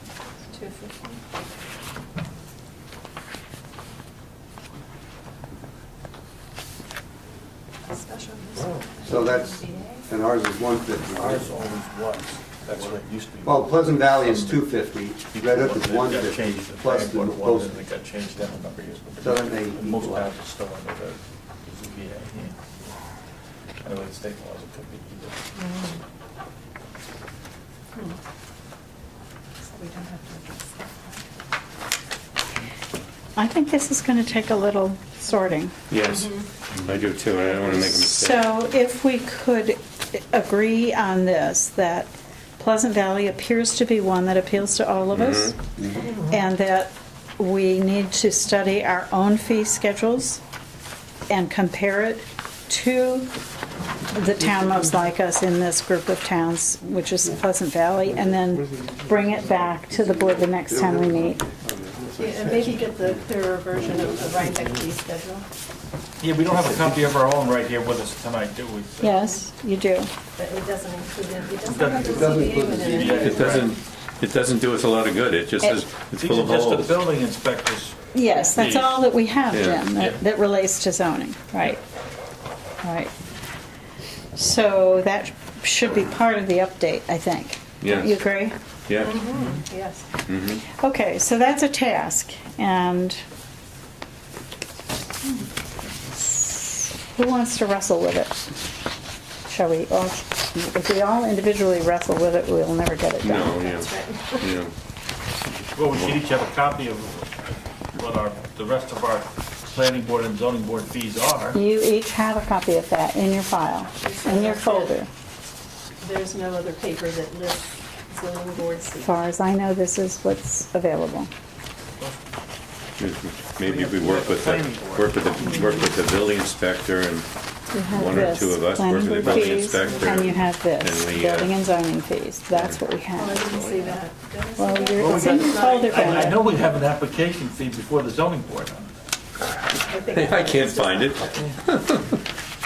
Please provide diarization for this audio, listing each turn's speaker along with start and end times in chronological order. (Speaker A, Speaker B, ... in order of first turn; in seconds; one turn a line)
Speaker A: 0.5-1.2
Speaker A: 7.9-9.2
Speaker B: 8.7-9.4
Speaker C: 9.0-11.5
Speaker B: 11.1-14.7
Speaker C: 13.4-17.8
Speaker B: 15.3-22.6
Speaker C: 19.2-20.3
Speaker B: 23.8-25.9
Speaker A: 29.7-31.2
Speaker D: 33.4-35.7
Speaker E: 35.9-38.5
Speaker D: 37.6-45.6
Speaker E: 45.1-45.5
Speaker D: 46.1-50.4
Speaker D: 51.3-53.3
Speaker D: 54.1-61.4
Speaker C: 58.1-64.8
Speaker A: 62.2-65.5
Speaker B: 63.8-64.2
Speaker B: 66.2-69.2
Speaker D: 69.0-70.1
Speaker A: 70.4-73.3
Speaker B: 71.2-73.7
Speaker C: 72.0-73.6
Speaker E: 73.1-76.9
Speaker B: 75.6-78.0
Speaker D: 78.1-81.8
Speaker E: 78.5-79.9
Speaker D: 82.8-83.1
Speaker D: 84.3-88.5
Speaker E: 87.8-88.2
Speaker E: 88.9-89.3
Speaker A: 89.1-90.0
Speaker E: 90.2-90.6
Speaker D: 90.7-93.2
Speaker D: 96.2-98.5
Speaker D: 99.5-103.7
Speaker E: 103.2-104.7
Speaker A: 103.7-104.5
Speaker B: 105.7-107.4
Speaker E: 105.8-106.2
Speaker B: 107.9-111.6
Speaker D: 111.5-115.1
Speaker A: 114.1-114.9
Speaker A: 116.0-119.1
Speaker D: 119.0-121.3
Speaker E: 123.0-127.3
Speaker A: 123.7-125.6
Speaker D: 127.7-133.6
Speaker E: 127.9-131.5
Speaker A: 133.2-136.4
Speaker B: 133.4-134.1
Speaker D: 134.6-136.4
Speaker B: 134.9-138.9
Speaker A: 139.9-141.1
Speaker E: 140.1-142.2
Speaker B: 141.3-141.5